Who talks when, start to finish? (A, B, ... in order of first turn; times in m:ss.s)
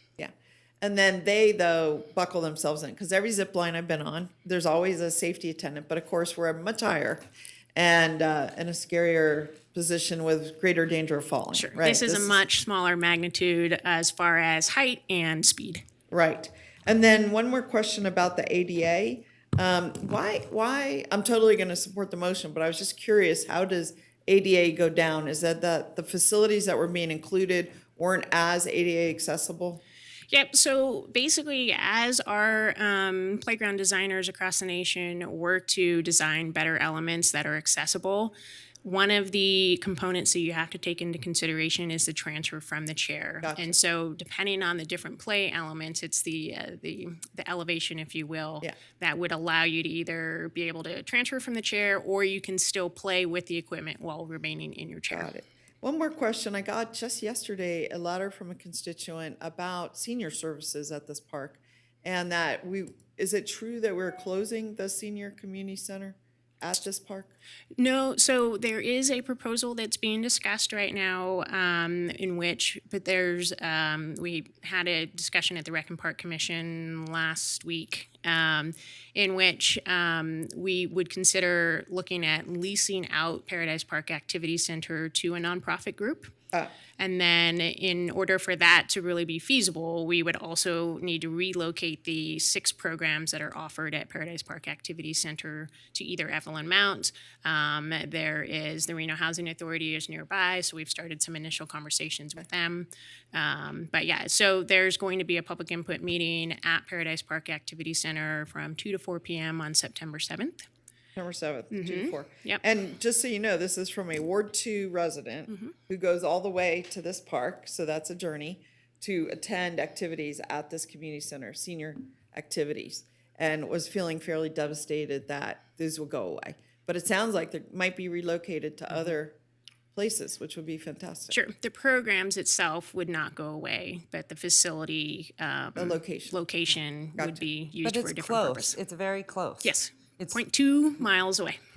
0:00.2-0:07.2 A
0:07.8-0:12.4 A
0:11.5-0:15.8 B
0:16.1-0:29.8 A
0:30.3-0:55.3 B
0:43.4-0:43.7 A
0:55.1-1:07.3 A
1:07.8-1:26.3 B
1:27.0-1:50.7 B
1:51.2-2:09.4 A
1:51.7-1:52.6 B
2:10.0-2:11.4 A
2:11.3-2:18.8 B
2:15.8-2:16.4 A
2:17.2-2:17.4 A
2:17.8-2:20.4 C
2:19.6-2:21.6 B